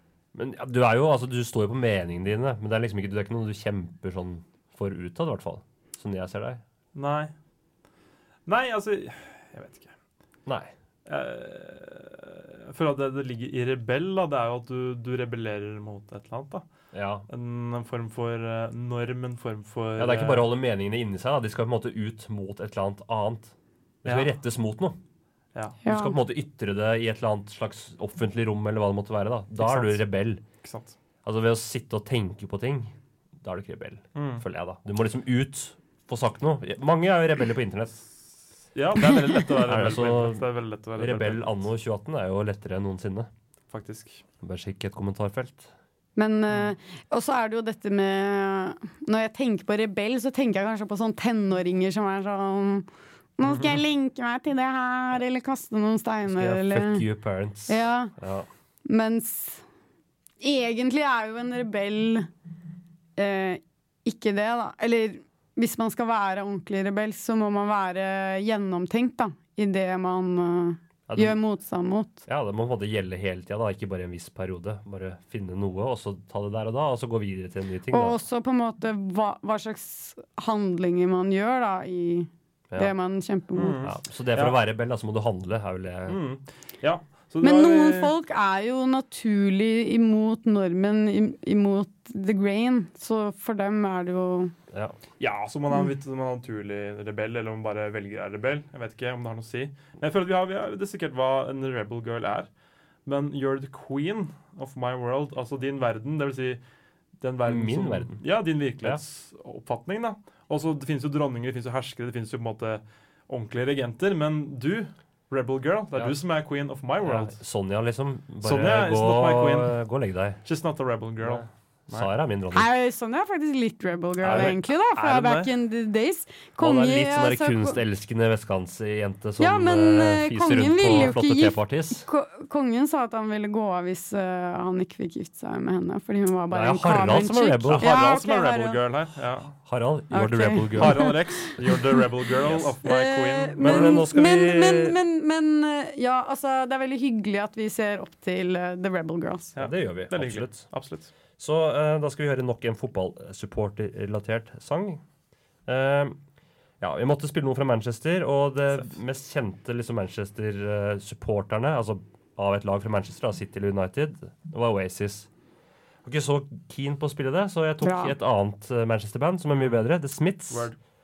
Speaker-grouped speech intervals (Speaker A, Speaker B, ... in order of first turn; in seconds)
Speaker A: 0.3-6.6, 10.4-10.7, 16.9-17.2, 20.0-25.0, 25.9-30.4, 31.2-38.1, 39.6-43.3, 44.4-45.7, 56.3-58.5, 71.1-71.4, 72.3-78.2, 83.8-86.2, 107.4-108.2, 117.0-120.4, 121.2-122.7, 124.3-124.5, 126.6-132.1, 136.5-137.9, 139.7-141.2, 142.4-142.7, 143.6-145.0, 149.6-150.7, 151.4-155.0, 155.7-156.2, 156.8-165.3, 166.0-170.7
Speaker B: 6.9-7.3, 8.5-9.9, 11.1-16.6, 17.3-20.5, 24.0-24.3, 29.6-30.0, 30.6-30.9, 34.1-34.4, 38.7-41.5, 43.7-44.2, 53.5-53.8, 83.5-84.6, 86.1-88.1, 95.2-102.5, 103.0-106.6, 107.2-117.4, 118.4-119.7, 120.4-122.1, 124.2-125.5, 137.7-139.5, 140.7-144.0, 149.6-151.1, 170.5-170.8
Speaker C: 25.8-26.2, 46.1-52.9, 53.4-57.0, 57.7-58.1, 58.9-59.6, 60.4-62.3, 63.2-72.2, 77.9-83.8, 87.4-94.5, 122.5-127.8, 129.4-138.8, 140.1-141.2, 142.8-149.5, 167.8-168.1